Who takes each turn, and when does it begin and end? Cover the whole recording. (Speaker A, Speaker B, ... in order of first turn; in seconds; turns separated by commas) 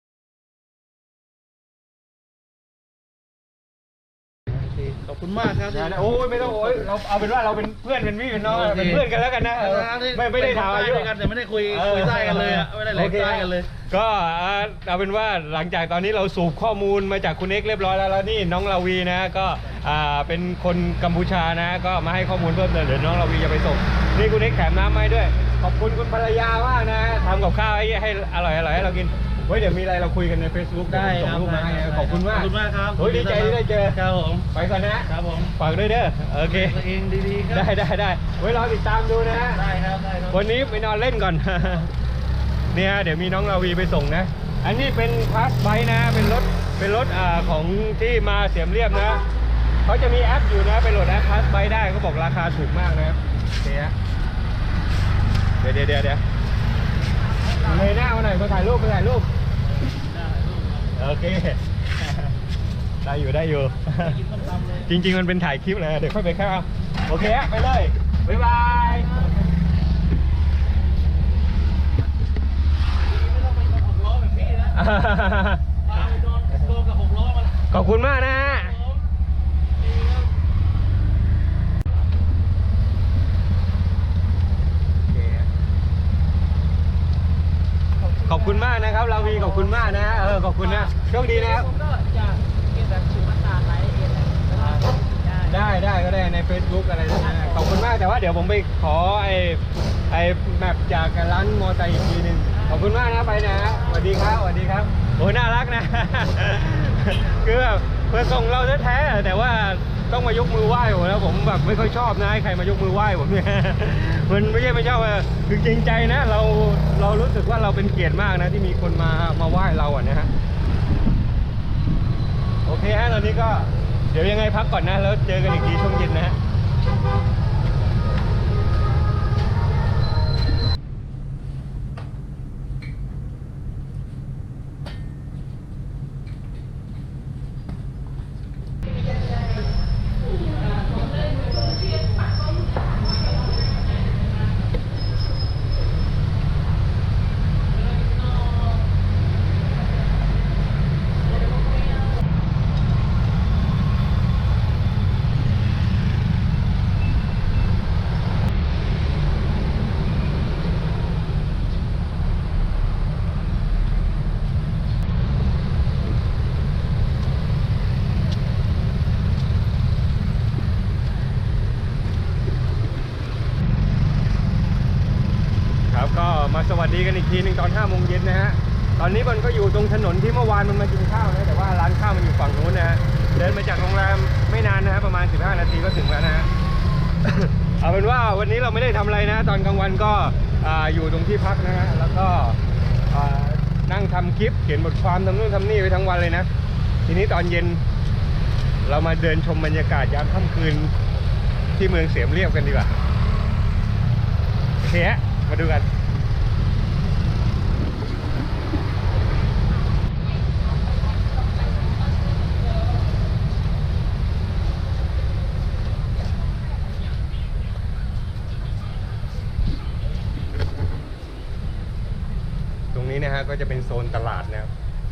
Speaker A: 4.8-5.9, Speaker B: 5.7-11.1, Speaker A: 8.4-9.0, Speaker A: 9.6-13.7, Speaker B: 11.6-34.0, Speaker A: 30.9-34.5, Speaker B: 34.5-36.8, Speaker A: 35.1-35.5, Speaker A: 36.4-37.7, Speaker B: 37.5-39.6, Speaker A: 39.5-40.7, Speaker B: 40.3-41.9, Speaker B: 42.7-49.2, Speaker B: 49.9-53.9, Speaker B: 55.6-56.2, Speaker B: 57.6-59.3, Speaker A: 59.9-60.9, Speaker B: 60.9-62.3, Speaker B: 63.0-64.2, Speaker A: 64.0-64.9, Speaker B: 64.8-69.2, Speaker A: 68.7-69.2, Speaker A: 73.0-74.8, Speaker B: 74.7-75.7, Speaker A: 75.9-79.0, Speaker B: 77.7-78.7, Speaker A: 79.8-80.2, Speaker B: 85.1-85.5, Speaker B: 88.2-91.7, Speaker C: 91.7-95.3, Speaker A: 94.2-95.0, Speaker B: 95.4-120.3, Speaker B: 122.7-126.4, Speaker C: 140.7-142.2, Speaker B: 175.9-186.5, Speaker B: 187.2-192.6, Speaker B: 193.1-196.5, Speaker B: 197.1-197.8, Speaker B: 198.8-200.9, Speaker B: 201.8-202.9, Speaker B: 204.8-205.8, Speaker B: 222.9-224.7